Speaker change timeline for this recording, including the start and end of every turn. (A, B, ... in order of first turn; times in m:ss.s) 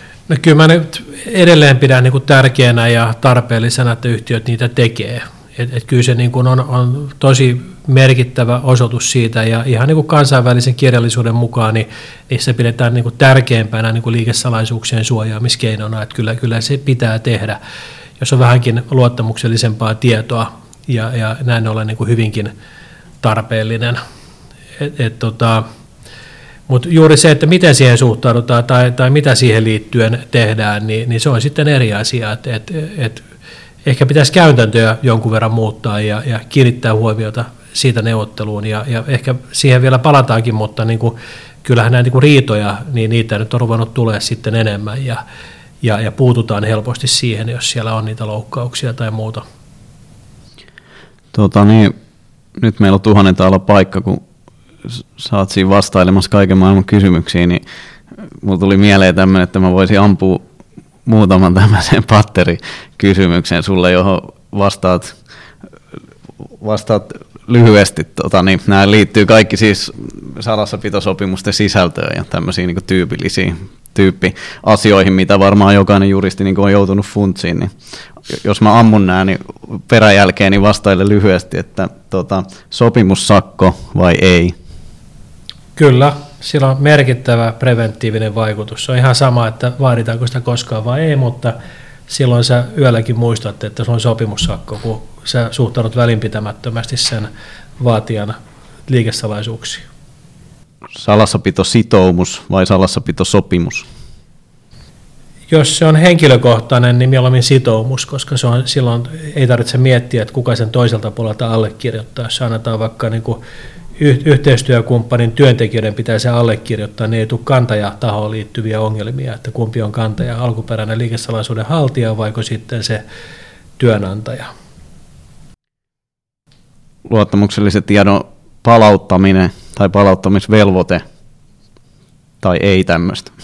0:00.3-0:17.6 A
0:18.2-0:22.5 A
0:23.2-0:24.0 A
0:24.8-0:25.6 A
0:26.7-0:33.2 A
0:33.8-0:45.2 A
0:45.8-0:49.4 A
0:51.3-0:52.0 B
0:52.6-0:54.2 B
0:55.2-0:57.6 B
0:58.4-1:00.4 B
1:01.1-1:05.2 B
1:06.6-1:17.7 B
1:18.3-1:24.6 B
1:25.8-1:31.6 A
1:32.1-1:39.9 A
1:41.0-1:43.9 B
1:45.5-1:53.4 A
1:54.0-2:03.0 A
2:03.8-2:04.5 A
2:07.1-2:11.0 B
2:12.4-2:13.3 B